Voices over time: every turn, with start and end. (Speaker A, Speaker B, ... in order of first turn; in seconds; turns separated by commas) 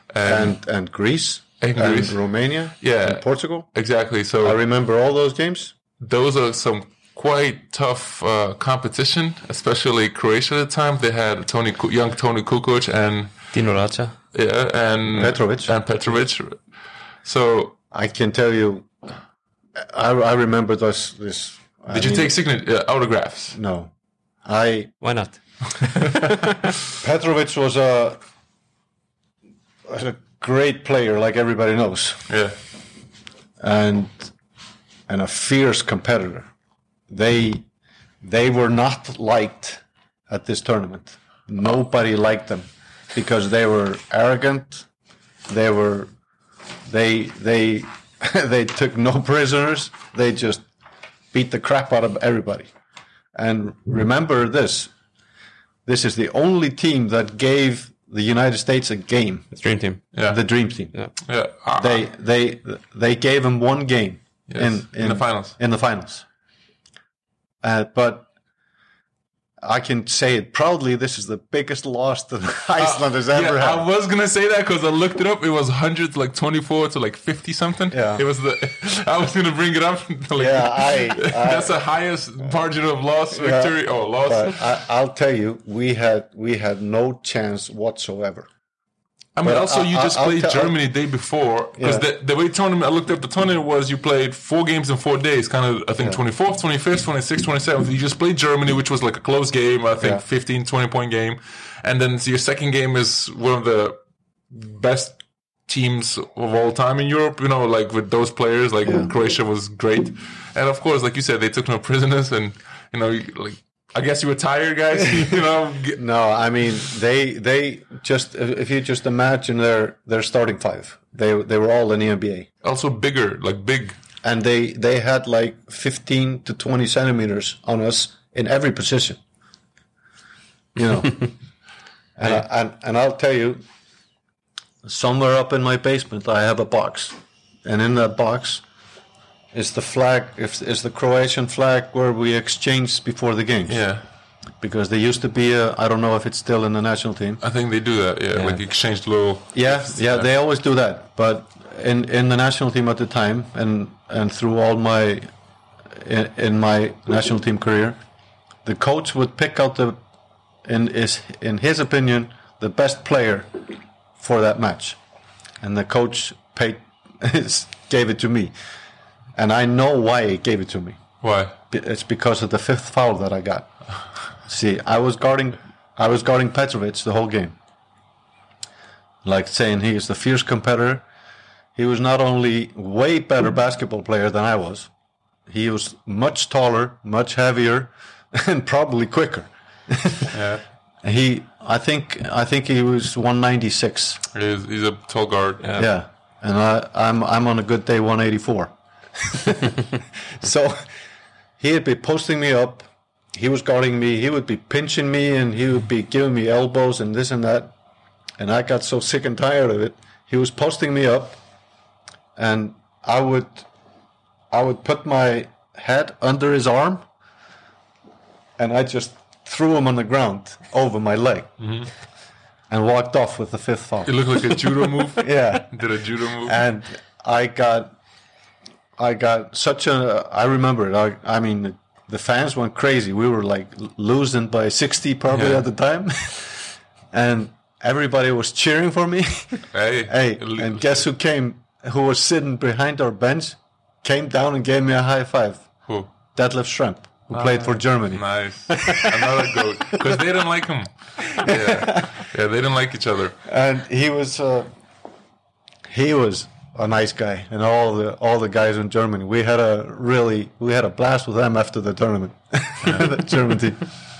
Speaker A: 0.1-0.5, Speaker B: 0.2-3.7, Speaker A: 1.6-4.6, Speaker B: 4.4-5.7, Speaker A: 6.0-13.5, Speaker C: 13.5-14.2, Speaker A: 14.3-16.7, Speaker B: 15.1-15.7, Speaker A: 17.2-17.8, Speaker B: 17.9-18.9, Speaker B: 19.8-22.3, Speaker A: 21.9-23.6, Speaker B: 23.5-23.9, Speaker B: 24.4-25.0, Speaker C: 25.0-26.4, Speaker B: 27.0-28.2, Speaker B: 29.9-32.3, Speaker A: 32.3-32.5, Speaker B: 33.6-34.3, Speaker B: 35.1-36.5, Speaker B: 37.1-37.6, Speaker B: 38.2-44.9, Speaker B: 45.5-46.1, Speaker B: 46.9-50.6, Speaker B: 51.3-52.7, Speaker B: 53.3-54.9, Speaker B: 55.9-59.5, Speaker C: 59.5-60.0, Speaker A: 60.1-60.4, Speaker B: 60.3-61.2, Speaker A: 61.2-62.0, Speaker B: 61.8-66.2, Speaker A: 64.5-65.5, Speaker B: 67.6-68.3, Speaker B: 69.6-73.8, Speaker A: 72.8-84.7, Speaker B: 77.9-78.2, Speaker B: 80.4-81.8, Speaker B: 83.3-88.5, Speaker A: 89.3-104.0, Speaker B: 89.4-90.7, Speaker B: 91.8-92.0, Speaker A: 104.5-116.0, Speaker B: 108.8-109.1, Speaker B: 116.0-122.5, Speaker A: 122.6-124.0, Speaker B: 124.2-129.2, Speaker B: 130.8-131.3, Speaker B: 132.2-133.6, Speaker B: 134.8-138.6, Speaker B: 139.5-143.8, Speaker A: 143.7-144.0, Speaker B: 144.6-147.4, Speaker A: 147.4-150.3, Speaker C: 148.3-148.6, Speaker B: 149.5-155.3, Speaker B: 155.9-158.0, Speaker B: 158.6-160.0, Speaker B: 160.6-163.6, Speaker B: 164.2-165.0, Speaker B: 165.6-168.5, Speaker B: 169.3-171.0, Speaker A: 171.2-171.5, Speaker B: 171.7-173.7, Speaker B: 174.4-177.6, Speaker B: 179.2-181.0, Speaker B: 181.7-184.9, Speaker B: 185.5-190.3, Speaker A: 190.3-190.6, Speaker B: 191.0-194.2, Speaker A: 194.3-195.8, Speaker C: 195.6-195.9, Speaker B: 195.8-200.9, Speaker B: 201.6-207.7, Speaker B: 208.4-211.4, Speaker B: 212.3-213.7, Speaker B: 214.5-217.0, Speaker B: 218.6-221.5, Speaker A: 221.6-221.9, Speaker B: 222.7-224.6, Speaker A: 224.1-226.5, Speaker B: 225.2-225.8, Speaker B: 226.4-227.9, Speaker B: 229.0-245.7, Speaker A: 235.3-235.6, Speaker A: 239.7-241.1, Speaker B: 246.3-249.6, Speaker A: 247.3-253.4, Speaker B: 251.4-252.1, Speaker B: 253.4-254.7, Speaker B: 255.9-263.8